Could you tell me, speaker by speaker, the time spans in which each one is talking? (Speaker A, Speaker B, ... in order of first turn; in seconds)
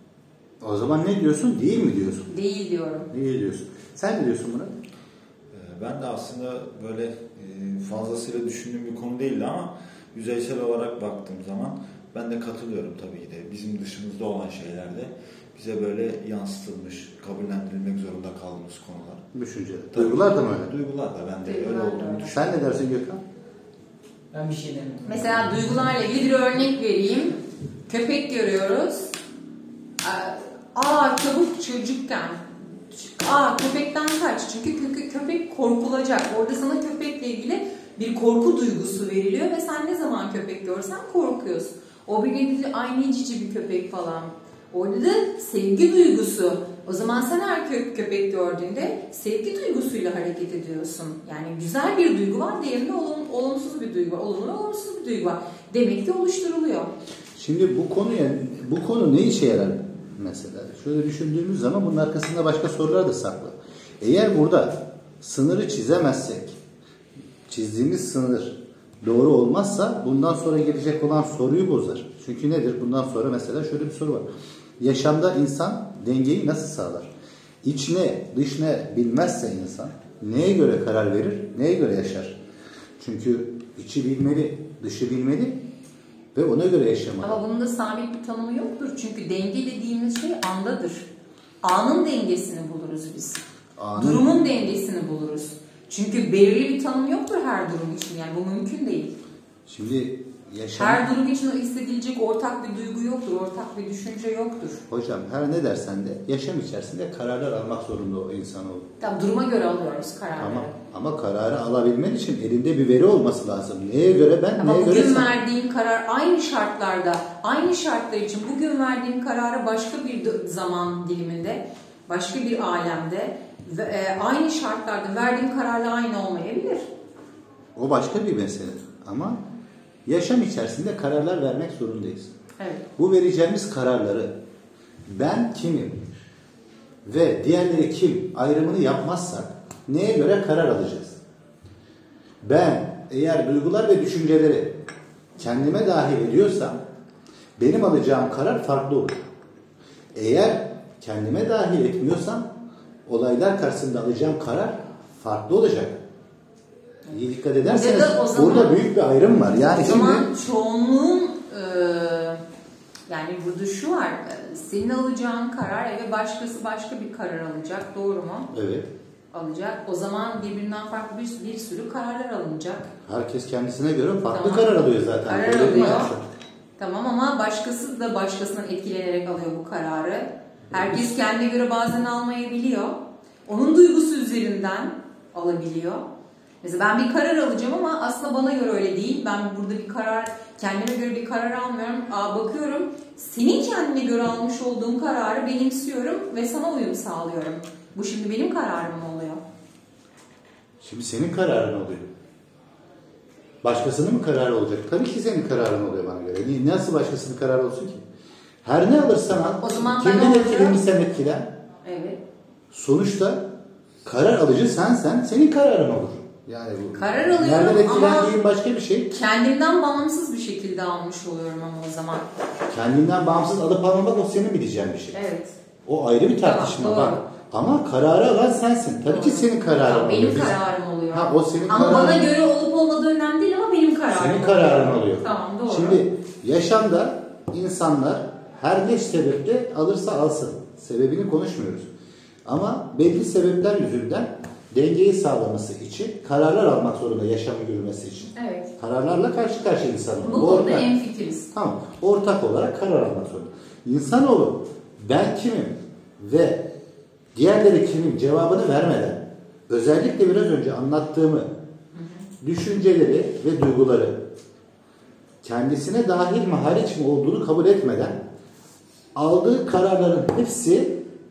Speaker A: 0.6-2.3, 3.1-4.7, 19.3-20.7, 22.1-23.2, 57.4-66.6, 67.5-74.3, 74.8-77.1, 77.6-82.4, 83.0-85.6, 86.3-87.4, 93.8-94.3, 99.7-101.0, 104.9-108.9, 110.4-115.3, 127.8-129.4, 130.1-132.3, 133.0-134.3, 135.1-136.0, 137.0-141.2, 142.4-144.8, 145.4-146.8, 147.6-149.2, 150.1-152.5, 153.1-156.0, 157.1-160.3, 168.5-168.9, 173.1-176.2, 200.8-202.1, 203.6-208.0, 208.6-211.5, 212.7-213.5, 214.0-219.1, 222.7-225.2, 225.8-230.5, 231.1-232.3, 234.1-241.9, 242.4-250.9, 251.5-256.7, 257.3-261.5, 262.4-264.2, 265.4-268.2, 269.1-271.0
Speaker B: 2.3-3.1, 21.4-22.4, 25.0-29.1, 30.0-56.9, 87.2-91.1, 91.6-93.4, 93.9-99.1, 100.8-104.8, 109.0-110.7, 114.6-126.9, 132.6-132.8, 157.1-158.8, 159.6-162.4, 163.1-168.5, 169.3-172.9, 174.3-174.7, 175.2-176.1, 176.8-186.0, 186.6-199.4, 209.6-210.8, 211.8-212.2, 216.9-218.3, 219.1-222.3, 225.1-225.5, 226.4-227.2, 229.1-236.0, 248.3-248.7, 250.2-251.5, 261.9-262.2
Speaker C: 5.5-19.2, 19.9-22.4, 24.3-24.8